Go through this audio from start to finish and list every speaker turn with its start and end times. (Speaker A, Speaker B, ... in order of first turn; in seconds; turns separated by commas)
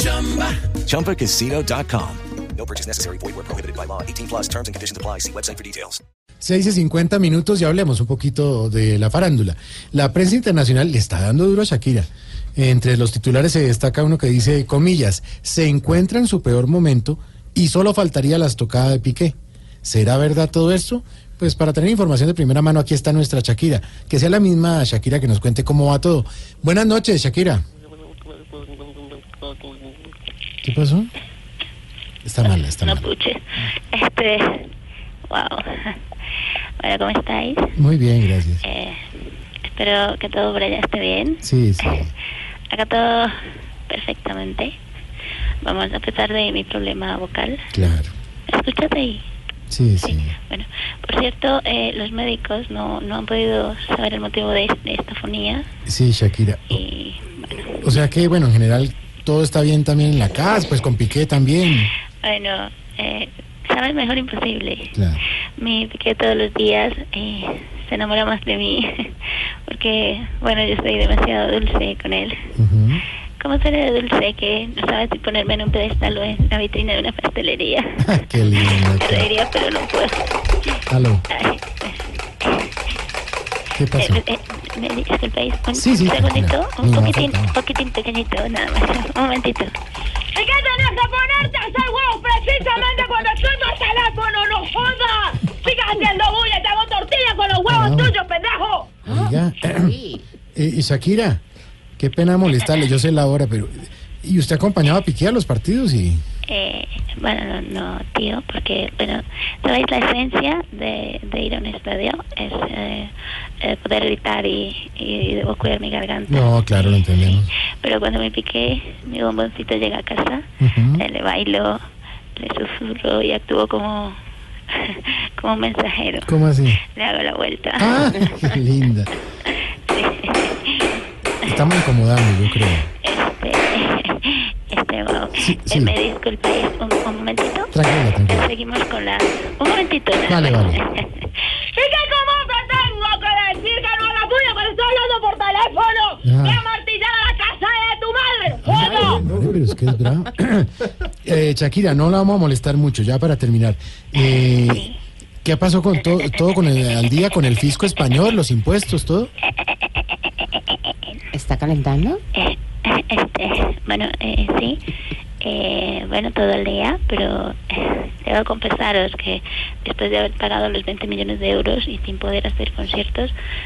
Speaker A: 0.4-6.0, Speaker B: 6.4-27.6, Speaker B: 30.6-31.1, Speaker B: 32.2-33.1, Speaker C: 32.8-33.4, Speaker C: 33.9-34.7, Speaker C: 35.3-36.0, Speaker C: 36.8-37.7, Speaker B: 37.8-38.6, Speaker C: 38.6-39.0, Speaker C: 39.7-41.9, Speaker B: 41.4-42.1, Speaker C: 42.7-43.3, Speaker C: 43.9-44.7, Speaker C: 45.6-47.6, Speaker B: 47.7-48.1, Speaker C: 48.5-49.2, Speaker B: 49.7-50.4, Speaker C: 50.0-55.6, Speaker B: 55.9-56.8, Speaker C: 56.7-57.8, Speaker B: 57.8-61.9, Speaker C: 62.2-64.9, Speaker B: 64.9-65.2, Speaker C: 65.6-72.3, Speaker B: 72.5-73.0, Speaker C: 73.4-80.3, Speaker B: 78.0-79.3, Speaker B: 80.9-81.2, Speaker C: 81.3-82.7, Speaker B: 83.7-84.2, Speaker C: 84.0-89.7, Speaker B: 85.7-87.5, Speaker D: 90.3-99.0, Speaker B: 97.5-98.2, Speaker B: 99.0-100.0, Speaker E: 99.0-100.2, Speaker B: 100.5-101.4, Speaker B: 102.0-106.2, Speaker C: 106.5-120.4, Speaker B: 116.3-117.5, Speaker B: 120.6-121.0, Speaker C: 121.0-121.8, Speaker C: 122.4-124.2, Speaker C: 124.7-126.3, Speaker B: 126.2-126.8, Speaker C: 126.9-128.6, Speaker B: 127.8-129.1, Speaker C: 129.5-131.5, Speaker B: 131.4-132.9, Speaker C: 133.0-137.7, Speaker B: 135.4-135.9, Speaker B: 137.7-138.5, Speaker C: 138.3-141.3, Speaker B: 140.3-140.8, Speaker D: 141.7-149.2, Speaker B: 146.2-146.7, Speaker B: 148.6-154.9, Speaker E: 148.8-149.3, Speaker C: 154.7-155.0, Speaker B: 155.4-159.3, Speaker C: 159.6-161.2, Speaker E: 161.3-162.2, Speaker C: 162.3-164.8, Speaker C: 165.4-173.3